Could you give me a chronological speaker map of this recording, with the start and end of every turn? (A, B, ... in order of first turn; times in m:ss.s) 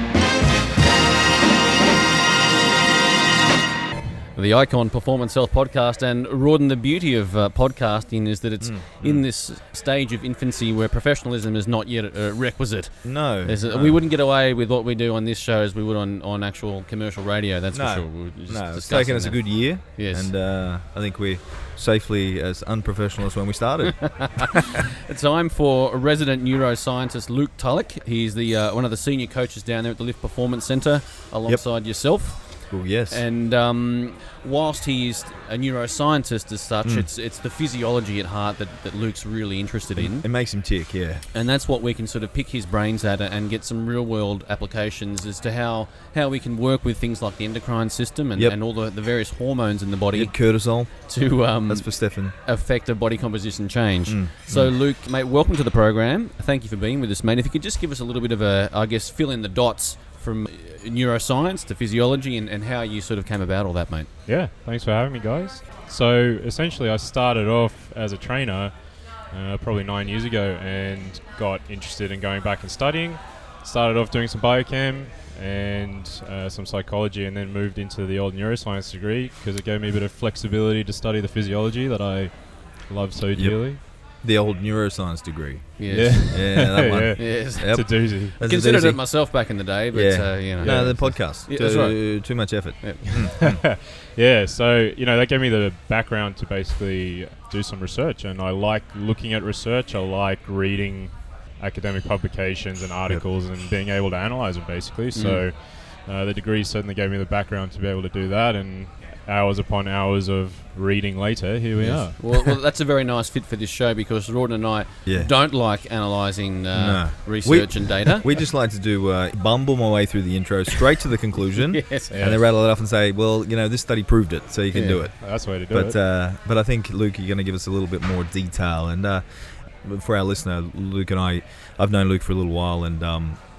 0:04.4-0:20.3 A
0:08.6-0:09.2 B
0:13.0-0:14.0 B
0:17.7-0:24.6 B
0:24.0-0:40.2 A
0:32.7-0:33.2 B
0:40.0-0:41.2 B
0:41.3-1:04.1 A
0:50.1-0:50.9 B
0:51.7-0:52.4 B
0:54.1-0:54.7 B
1:04.2-1:23.8 C
1:23.3-1:29.2 B
1:25.8-1:33.3 A
1:25.9-1:28.4 C
1:29.9-1:33.6 B
1:30.6-1:31.1 C
1:33.4-1:52.4 C
1:45.1-1:45.4 A
1:51.8-1:58.3 A
1:55.0-1:55.3 B
1:56.7-2:13.4 B
2:01.6-2:02.2 A
2:02.1-2:02.4 C
2:04.7-2:05.0 A
2:05.2-2:06.0 C